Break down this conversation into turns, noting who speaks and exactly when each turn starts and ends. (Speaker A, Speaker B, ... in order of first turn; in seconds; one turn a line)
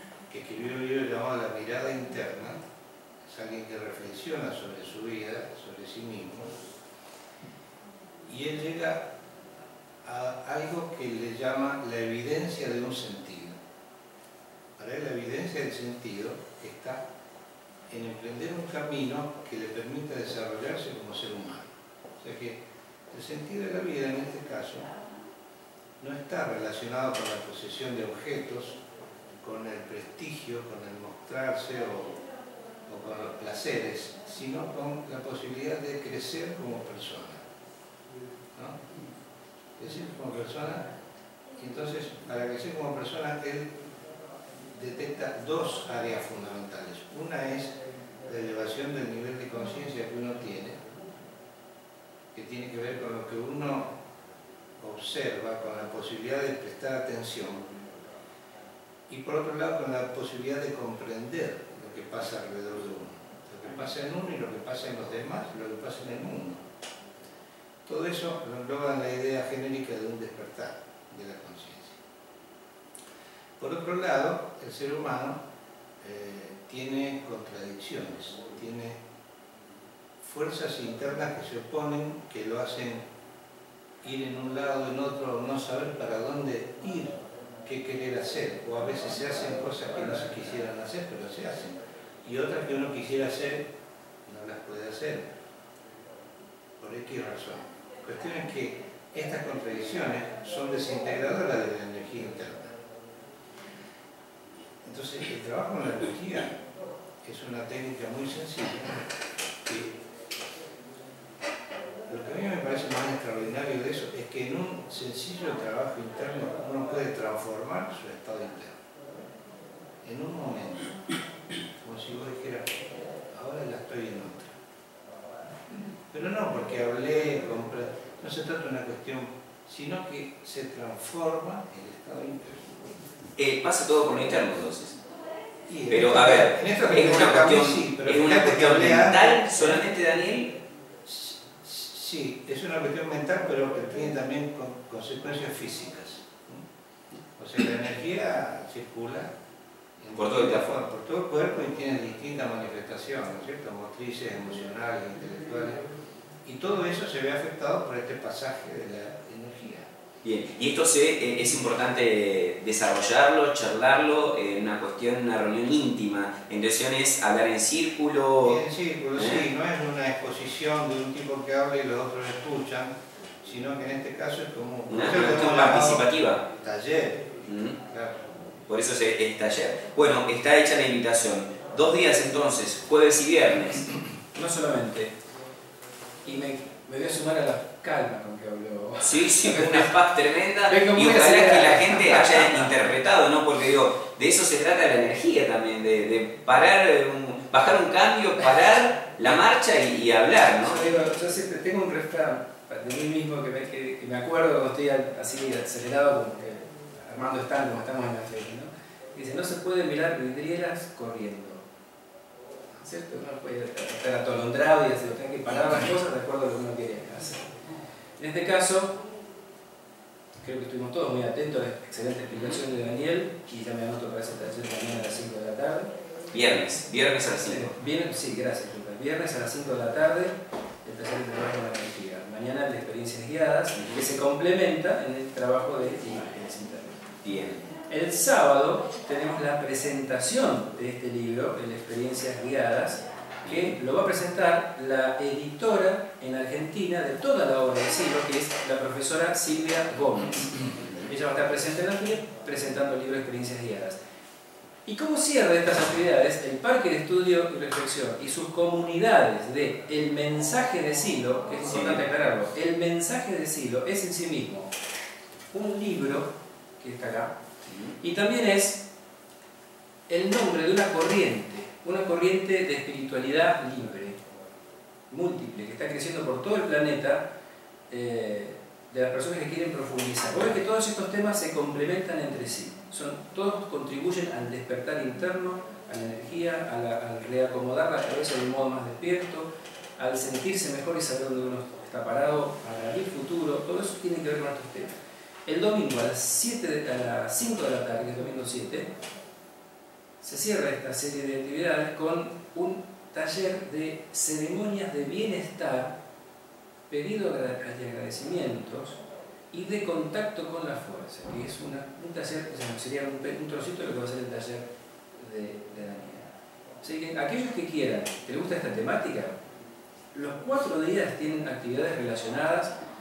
Speaker A: 0.3-2.6
Speaker A: 3.2-6.5
Speaker A: 8.2-9.0
Speaker A: 10.0-13.6
Speaker A: 14.8-17.0
Speaker A: 17.9-22.6
Speaker A: 23.1-24.9
Speaker A: 26.0-28.8
Speaker A: 29.4-32.2
Speaker A: 32.9-37.4
Speaker A: 39.8-40.8
Speaker A: 41.6-43.7
Speaker A: 44.7-50.8
Speaker A: 52.3-54.0
Speaker A: 54.8-57.7
Speaker A: 59.1-66.6
Speaker A: 67.8-72.0
Speaker A: 73.6-75.4
Speaker A: 76.0-79.0
Speaker A: 80.2-83.0
Speaker A: 84.0-93.7
Speaker A: 94.2-95.3
Speaker A: 96.8-102.7
Speaker A: 104.8-106.5
Speaker A: 107.2-109.0
Speaker A: 109.6-110.0
Speaker A: 112.1-118.8
Speaker A: 120.0-120.9
Speaker A: 121.8-124.5
Speaker A: 126.1-133.0
Speaker B: 133.4-135.0
Speaker A: 135.7-139.8
Speaker B: 135.9-140.5
Speaker A: 141.0-146.6
Speaker A: 147.4-149.3
Speaker A: 150.0-155.8
Speaker B: 150.1-150.7
Speaker A: 156.4-159.9
Speaker B: 160.2-168.6
Speaker A: 168.4-177.3
Speaker B: 169.2-169.4
Speaker B: 174.9-176.4
Speaker B: 177.4-177.8
Speaker A: 177.8-178.4
Speaker B: 178.7-183.9
Speaker C: 184.3-185.1
Speaker C: 186.2-189.9
Speaker B: 189.0-200.8
Speaker C: 190.7-192.9
Speaker C: 200.6-211.6
Speaker C: 212.8-217.5
Speaker C: 218.2-219.0
Speaker C: 220.4-225.9
Speaker B: 222.3-222.6
Speaker B: 226.3-227.7
Speaker C: 227.4-237.0
Speaker B: 233.7-234.1
Speaker B: 237.2-237.6
Speaker C: 237.9-254.0
Speaker B: 243.4-243.7
Speaker C: 254.8-264.7
Speaker B: 261.6-262.0
Speaker C: 265.5-267.3
Speaker B: 267.6-268.0
Speaker C: 268.0-268.8
Speaker C: 270.1-274.2
Speaker C: 275.1-277.2
Speaker C: 277.9-298.9
Speaker C: 300.2-306.0
Speaker C: 306.9-309.0
Speaker C: 309.5-316.3
Speaker C: 316.8-319.3
Speaker C: 320.1-322.7